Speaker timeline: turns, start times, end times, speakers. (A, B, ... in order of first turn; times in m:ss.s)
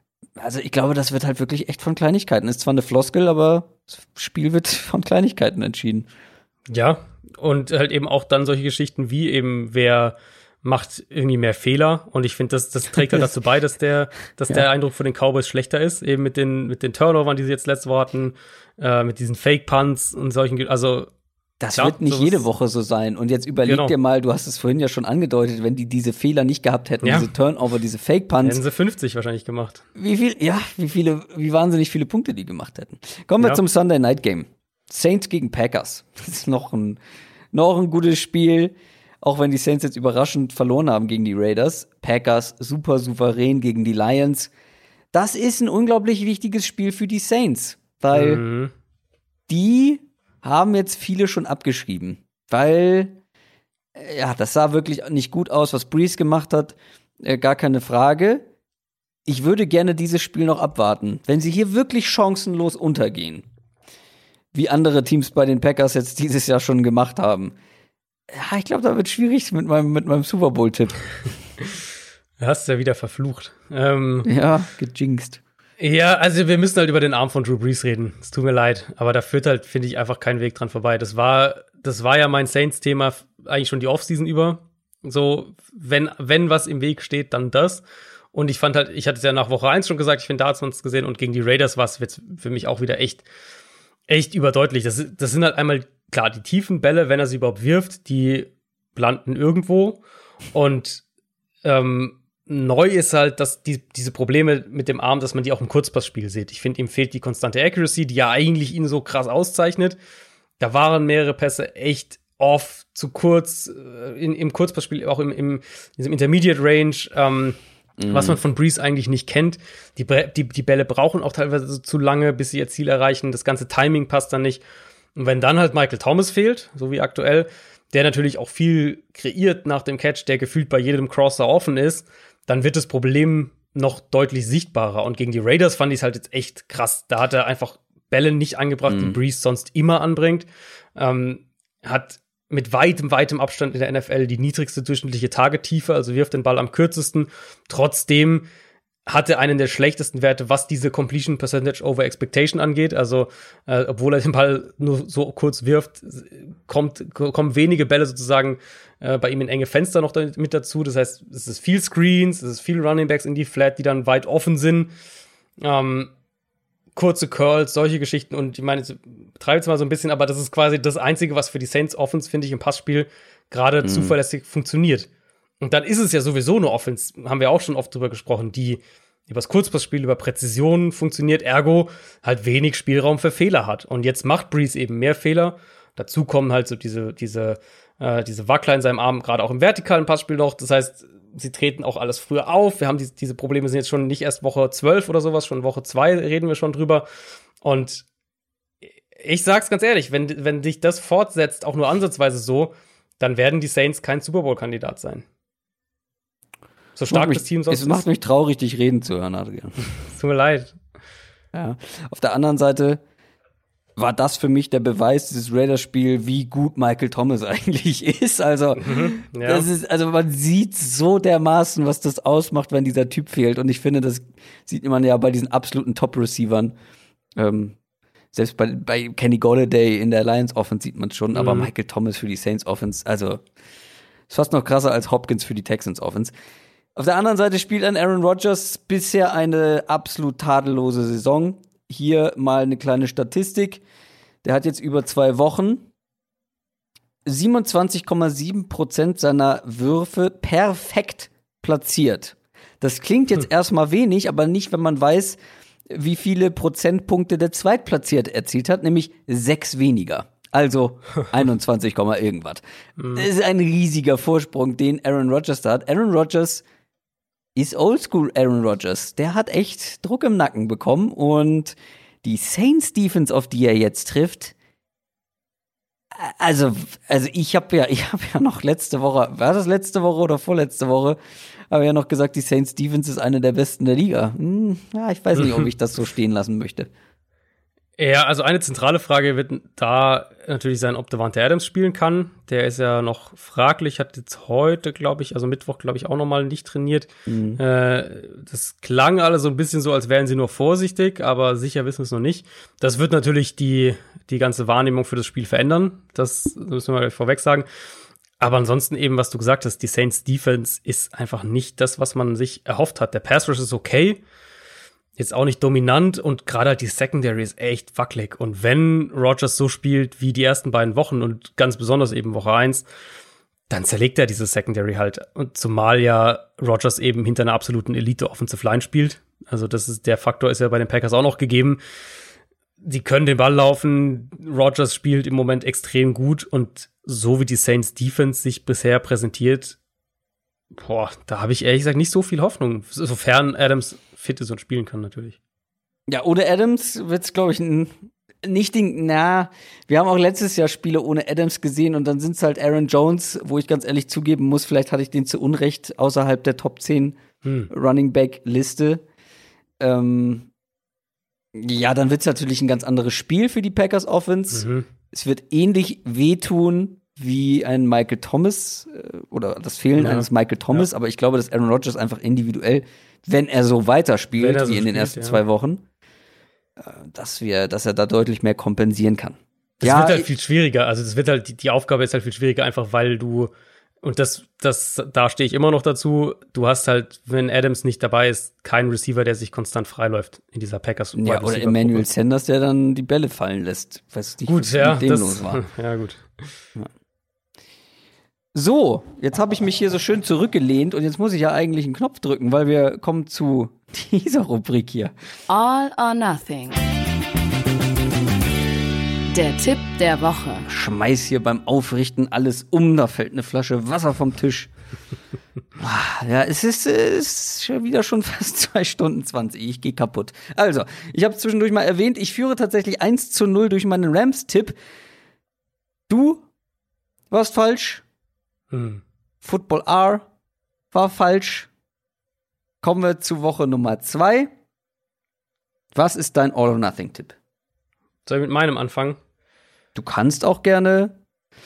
0:00.4-0:06.1 A
0:06.7-0:21.1 B
0:21.6-0:28.6 A
0:21.7-0:22.4 B
0:23.7-0:23.9 B
0:27.0-0:27.3 B
0:28.4-0:29.8 B
0:30.0-0:37.0 A
0:37.5-0:44.5 A
0:45.1-0:48.4 A
0:48.1-0:48.7 B
0:49.5-0:53.2 A
0:54.0-0:58.4 A
0:59.3-1:03.5 A
1:04.5-1:07.5 A
1:08.3-1:11.1 A
1:12.4-1:14.3 B
1:14.2-1:15.4 A
1:15.8-1:27.8 B
1:28.3-1:33.2 B
1:34.1-1:40.0 B
1:40.5-1:41.0 B
1:41.6-1:50.0 B
1:50.6-1:57.6 B
1:58.0-1:58.4 A
1:58.1-2:04.6 B
2:05.2-2:28.5 B
2:18.9-2:19.2 A
2:29.1-2:44.9 B
2:45.6-2:46.1 B
2:47.0-2:55.1 B
2:53.8-2:54.2 A
2:55.6-3:17.1 B
3:17.6-3:18.0 B
3:19.2-3:25.3 B
3:27.0-3:28.0 B
3:27.1-3:29.8 A
3:30.0-3:30.8 B
3:31.5-3:33.0 A
3:34.0-3:46.7 A
3:38.8-3:39.7 B
3:47.4-3:47.8 A
3:48.3-3:53.4 A
3:51.3-3:51.7 B
3:54.3-3:56.3 A
3:57.0-4:03.8 A
4:04.4-4:05.9 A
4:07.2-4:15.4 A
4:15.9-4:22.6 A
4:23.0-4:23.3 B
4:23.1-4:26.6 A
4:27.6-4:34.6 A
4:36.1-4:41.2 A
4:41.7-4:46.9 A
4:45.4-4:45.7 B
4:48.0-5:07.7 B
4:57.3-4:57.6 A
5:08.4-5:14.2 B
5:15.2-5:22.9 B
5:23.7-5:31.8 B
5:32.8-5:39.8 B
5:40.7-5:45.4 B
5:46.1-5:47.9 A
5:48.4-5:59.0 A
5:57.4-5:57.7 B
5:59.8-6:00.5 A
6:01.6-6:15.8 A
6:04.5-6:04.9 B
6:10.0-6:10.9 B
6:14.4-6:15.4 B
6:16.8-6:20.3 A
6:19.8-6:32.1 B
6:31.2-6:35.6 A
6:34.5-6:36.5 B
6:38.6-6:45.1 A
6:45.5-6:46.8 C
6:49.3-6:50.6 C
6:50.7-6:54.7 A
6:55.8-7:04.8 A
7:06.1-7:06.4 A
7:07.3-7:08.0 A
7:08.7-7:09.0 B
7:09.4-7:10.2 A
7:10.9-7:11.7 A
7:12.8-7:14.5 A
7:16.0-7:17.4 A
7:18.3-7:19.2 B
7:20.0-7:21.2 A